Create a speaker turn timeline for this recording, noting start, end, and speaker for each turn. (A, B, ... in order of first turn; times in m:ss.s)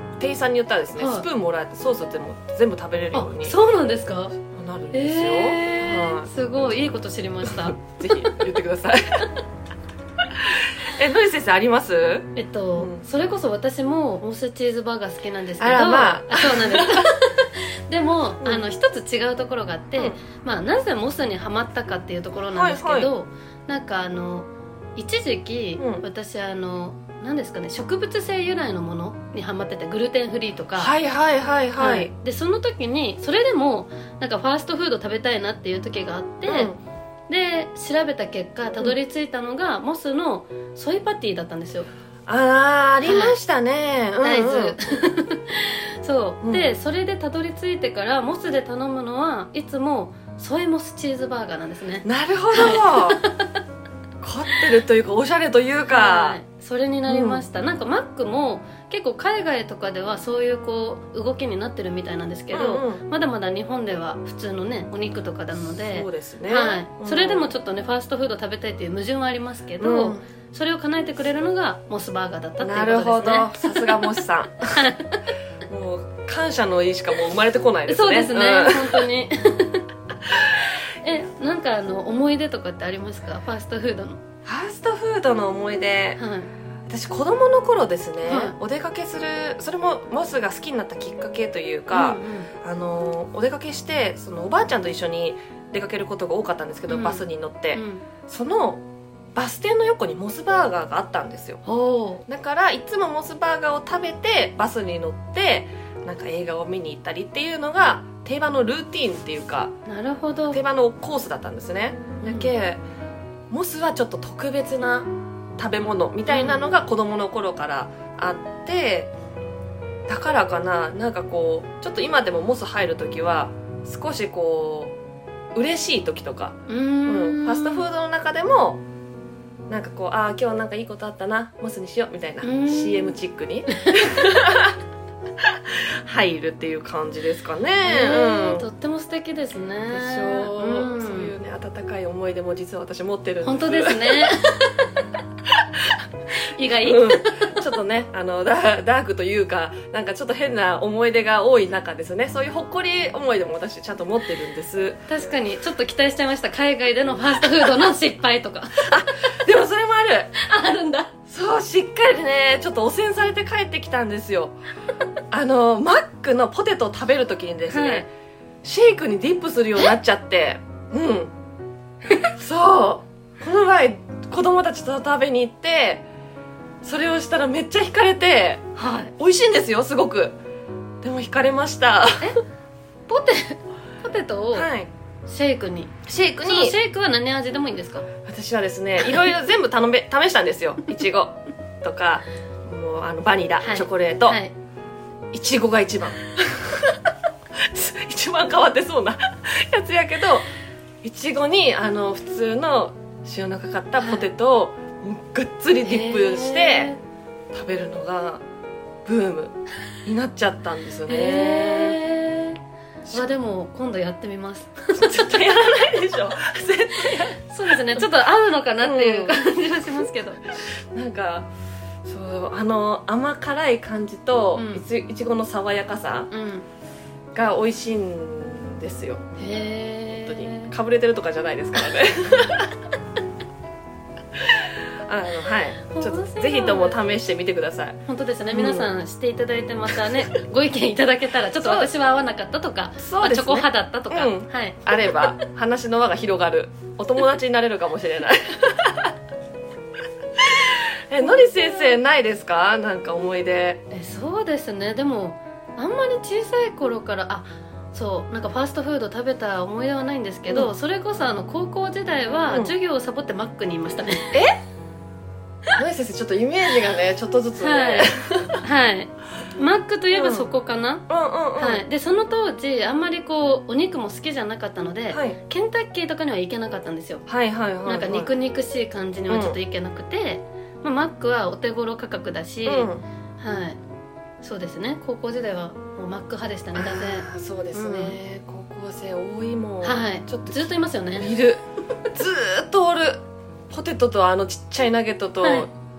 0:00.2-0:03.6 A
0:01.0-0:01.3 B
0:03.1-0:04.3 B
0:04.4-0:06.3 A
0:04.9-0:08.0 B
0:07.6-0:09.3 A
0:10.4-0:13.0 A
0:12.4-0:30.9 B
0:15.6-0:17.0 A
0:22.5-0:23.1 A
0:25.8-0:26.0 A
0:30.8-0:32.1 A
0:31.8-0:36.7 B
0:36.5-0:36.8 A
0:37.3-0:41.9 B
0:42.3-0:44.8 A
0:43.0-0:43.4 B
0:44.2-0:53.6 B
0:46.4-0:46.7 A
0:52.0-0:53.2 A
0:54.2-0:56.4 A
0:55.9-1:14.2 B
0:57.1-0:57.4 A
1:02.5-1:03.0 A
1:05.8-1:07.5 A
1:09.8-1:10.2 A
1:12.6-1:14.8 A
1:14.7-1:15.2 B
1:15.7-1:19.0 A
1:17.9-1:19.8 B
1:21.0-1:24.2 B
1:24.4-1:26.2 A
1:26.2-1:26.5 B
1:26.9-1:38.8 A
1:28.3-1:28.6 B
1:31.9-1:32.5 B
1:36.9-1:38.1 B
1:39.4-1:41.6 A
1:41.7-1:42.2 B
1:42.3-1:49.7 A
1:49.9-1:50.6 B
1:50.5-1:52.8 A
1:52.2-1:52.5 B
1:53.5-1:59.1 A
1:56.3-1:56.7 B
2:00.1-2:05.0 A
2:05.6-2:08.8 A
2:06.7-2:07.9 B
2:09.7-2:14.8 A
2:12.4-2:13.2 B
2:16.0-2:18.7 A
2:17.8-2:21.3 B
2:19.9-2:24.3 A
2:23.4-2:24.9 B
2:26.5-2:27.5 B
2:26.7-2:35.0 A
2:35.1-2:38.9 B
2:38.8-2:40.3 A
2:40.4-2:41.1 B
2:41.3-2:44.6 A
2:45.3-2:48.1 A
2:47.7-2:48.1 B
2:48.6-2:51.3 A
2:52.3-2:56.0 A
2:56.8-3:00.4 A
2:58.8-2:59.1 B
3:01.0-3:02.3 A
3:03.1-3:04.7 B
3:04.5-3:04.9 A
3:05.3-3:05.9 B
3:06.1-3:06.8 A
3:06.4-3:08.1 B
3:08.2-3:14.4 A
3:13.6-3:14.5 B
3:15.3-3:17.1 A
3:17.6-3:20.5 A
3:21.0-3:26.9 A
3:24.0-3:24.3 B
3:25.8-3:27.0 B
3:27.5-3:28.4 A
3:29.1-3:32.0 A
3:31.1-3:35.5 B
3:34.9-3:38.0 A
3:37.1-3:40.4 B
3:38.8-3:39.4 A
3:40.9-3:41.5 A
3:42.0-3:46.3 A
3:44.6-3:44.9 B
3:46.3-3:46.7 B
3:47.3-3:49.4 A
3:49.4-3:50.7 B
3:50.1-3:52.8 A
3:54.5-3:58.0 A
3:55.9-3:57.0 B
3:58.1-4:05.4 B
3:58.5-3:58.9 A
4:01.6-4:01.9 A
4:03.0-4:09.1 A
4:10.4-4:13.8 A
4:13.9-4:24.4 B
4:24.3-4:24.6 A
4:25.8-4:28.6 A
4:27.6-4:31.0 B
4:30.1-4:30.5 A
4:31.1-4:31.8 A
4:31.6-4:37.2 B
4:35.1-4:35.4 A
4:37.3-4:38.3 A
4:37.8-4:43.8 B
4:39.3-4:39.6 A
4:42.6-4:43.0 A
4:44.4-4:48.2 B
4:46.8-4:55.7 A
4:49.8-4:51.3 B
4:55.4-4:55.7 B